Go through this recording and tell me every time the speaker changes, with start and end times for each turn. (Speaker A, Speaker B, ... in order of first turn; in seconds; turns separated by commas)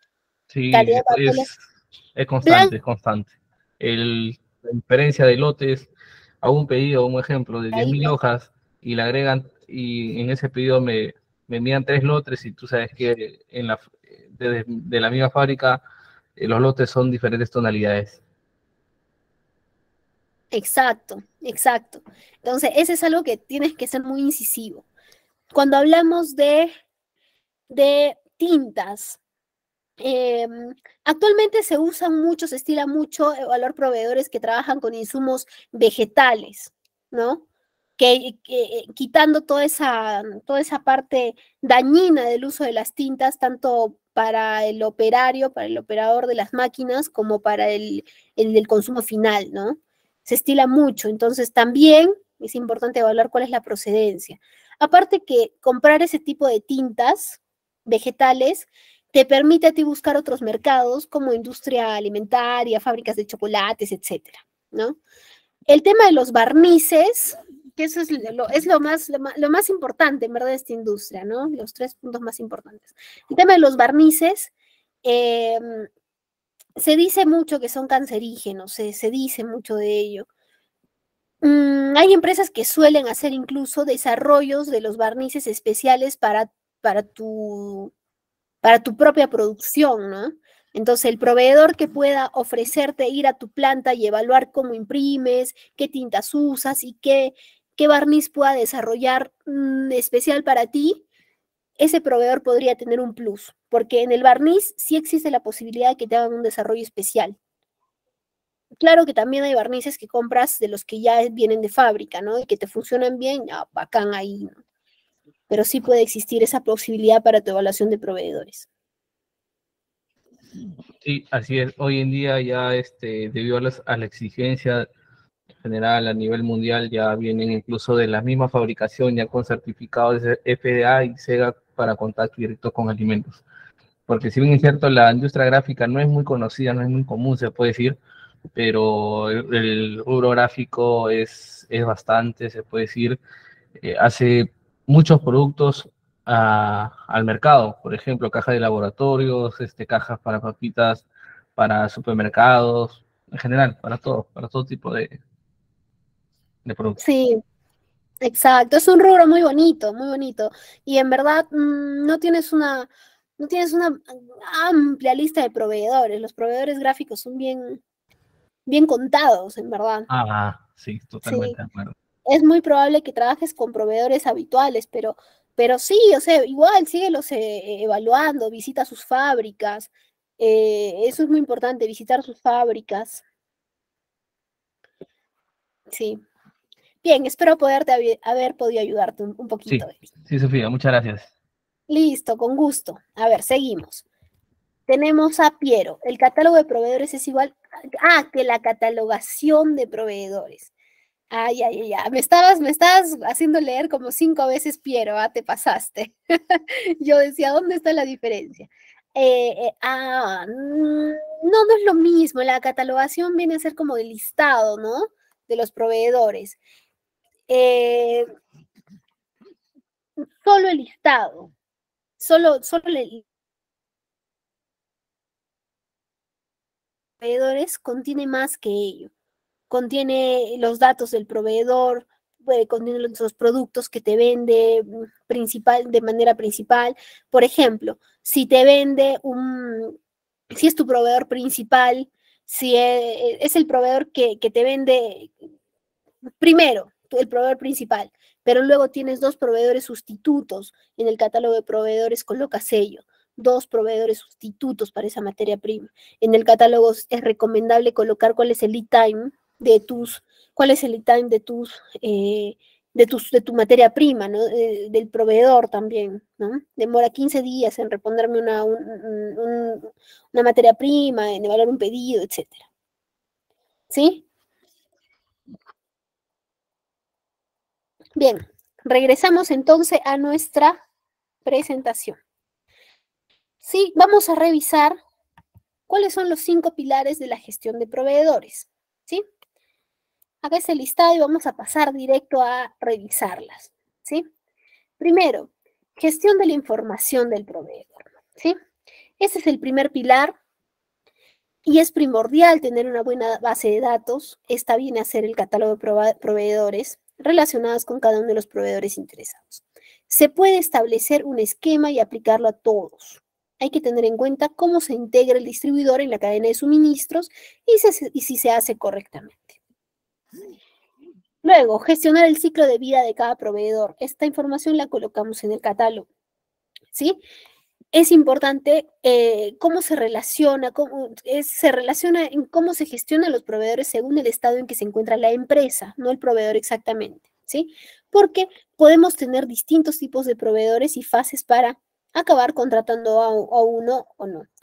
Speaker A: 0.5-1.6, Speaker B: 0.7-1.5, Speaker A: 2.1-5.9, Speaker B: 2.4-2.7, Speaker A: 6.4-15.8, Speaker B: 7.7-8.1, Speaker A: 16.4-18.2, Speaker B: 20.5-24.9, Speaker B: 25.5-26.7, Speaker B: 27.7-29.2, Speaker B: 30.0-37.4, Speaker B: 38.0-65.0, Speaker B: 65.7-74.5, Speaker B: 75.0-75.9, Speaker B: 76.8-80.3, Speaker B: 81.4-87.9, Speaker B: 88.6-101.0, Speaker B: 101.8-107.4, Speaker B: 108.8-114.6, Speaker B: 115.5-118.7, Speaker A: 121.0-124.9, Speaker A: 125.6-133.4, Speaker A: 134.1-138.0, Speaker A: 138.5-143.2, Speaker A: 143.8-155.2, Speaker A: 156.6-157.0, Speaker B: 157.0-157.4, Speaker B: 158.2-167.8, Speaker B: 168.7-170.1, Speaker A: 170.1-171.9, Speaker B: 171.2-171.6, Speaker B: 172.3-183.2, Speaker B: 185.9-186.2, Speaker B: 187.0-190.1, Speaker A: 189.7-191.3, Speaker B: 191.9-194.0, Speaker B: 194.9-200.7, Speaker B: 201.3-216.6, Speaker B: 217.5-218.3, Speaker B: 220.2-221.5, Speaker B: 222.2-223.2, Speaker B: 227.2-229.1, Speaker B: 229.7-239.9, Speaker B: 240.5-245.3, Speaker B: 246.4-272.6, Speaker B: 273.9-274.2, Speaker B: 278.2-280.8, Speaker B: 281.4-282.2, Speaker B: 283.6-285.0, Speaker B: 285.9-289.2, Speaker B: 290.4-294.2, Speaker B: 295.0-298.6, Speaker B: 299.2-300.4, Speaker B: 301.6-319.6, Speaker B: 321.4-326.1, Speaker B: 326.9-327.2, Speaker B: 327.9-344.5